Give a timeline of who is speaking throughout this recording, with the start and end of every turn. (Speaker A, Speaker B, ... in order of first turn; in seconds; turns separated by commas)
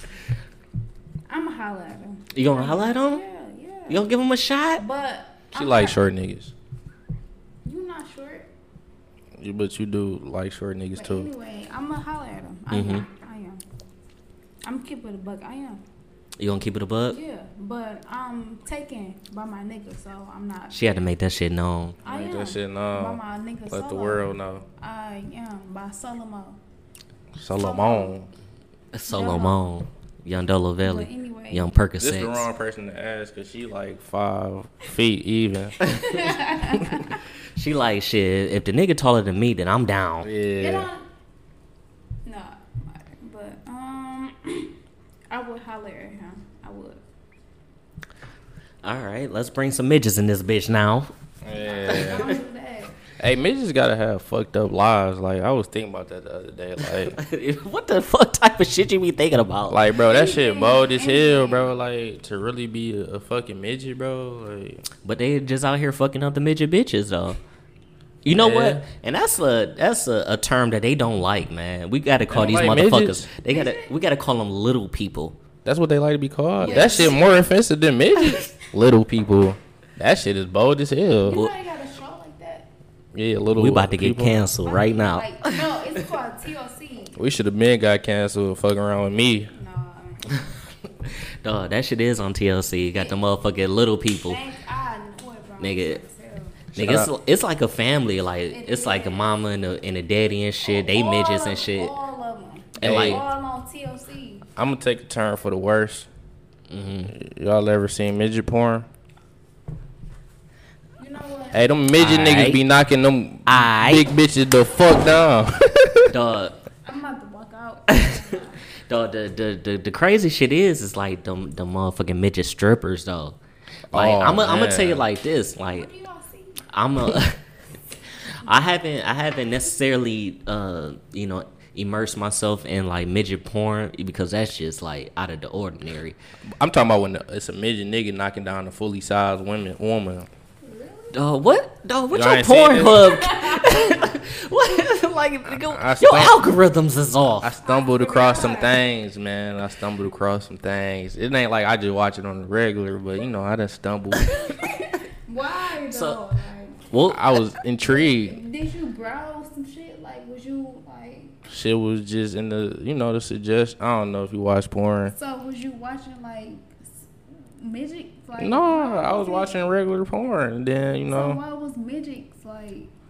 Speaker A: 1.3-4.1, Speaker B: 2.3-3.2, Speaker B: 3.9-4.8, Speaker A: 4.8-6.0, Speaker C: 5.5-6.5, Speaker A: 7.6-8.5, Speaker C: 9.4-11.3, Speaker A: 10.9-13.6, Speaker B: 12.7-13.1, Speaker A: 14.6-15.8, Speaker B: 16.4-17.2, Speaker A: 17.1-20.8, Speaker B: 20.7-22.0, Speaker A: 22.0-26.6, Speaker C: 22.0-24.6, Speaker C: 27.4-28.3, Speaker A: 27.6-28.1, Speaker B: 28.9-32.5, Speaker A: 29.1-29.7, Speaker A: 30.8-31.7, Speaker C: 32.0-35.8, Speaker A: 35.8-37.2, Speaker B: 37.5-40.3, Speaker C: 40.2-40.9, Speaker A: 40.6-41.0, Speaker A: 42.2-44.7, Speaker A: 45.3-47.0, Speaker B: 48.8-51.1, Speaker C: 51.4-52.4, Speaker A: 51.5-53.0, Speaker C: 53.2-57.1, Speaker B: 57.0-59.9, Speaker C: 59.7-64.8, Speaker A: 60.0-61.7, Speaker B: 65.0-67.4, Speaker B: 68.2-75.4, Speaker C: 68.3-68.8, Speaker C: 72.3-73.3, Speaker A: 73.5-73.9, Speaker C: 75.6-81.4, Speaker B: 76.6-77.1, Speaker A: 76.6-77.3, Speaker A: 81.2-82.7, Speaker C: 83.1-84.4, Speaker B: 83.5-85.8, Speaker A: 84.6-87.2, Speaker C: 87.2-89.5, Speaker A: 89.5-90.4, Speaker B: 91.4-94.4, Speaker A: 94.1-96.6, Speaker B: 95.6-96.0, Speaker B: 96.7-101.9, Speaker C: 96.7-97.1, Speaker A: 98.5-99.4, Speaker A: 100.6-104.5, Speaker B: 102.8-103.2, Speaker C: 102.8-103.2, Speaker C: 104.6-106.1, Speaker B: 106.7-107.1, Speaker C: 107.1-108.9, Speaker A: 111.0-111.7, Speaker C: 111.5-116.2, Speaker B: 112.0-112.6, Speaker B: 113.5-114.1, Speaker B: 116.1-116.6, Speaker A: 116.8-118.6, Speaker B: 117.9-118.2, Speaker B: 118.8-123.4, Speaker C: 123.9-125.0, Speaker B: 123.9-125.9, Speaker A: 125.7-126.7, Speaker B: 126.7-127.4, Speaker B: 128.2-136.2, Speaker C: 136.6-140.3, Speaker A: 140.6-141.2, Speaker B: 141.1-147.5, Speaker C: 142.1-143.2, Speaker A: 143.2-144.0, Speaker C: 145.4-146.5, Speaker C: 147.4-154.3, Speaker A: 147.6-148.8, Speaker B: 154.2-154.4, Speaker A: 154.5-156.8, Speaker B: 155.8-156.2, Speaker B: 156.9-157.4, Speaker C: 157.0-158.4, Speaker A: 157.8-161.3, Speaker C: 161.5-165.1, Speaker A: 165.1-169.6, Speaker C: 168.4-171.4, Speaker A: 171.1-172.9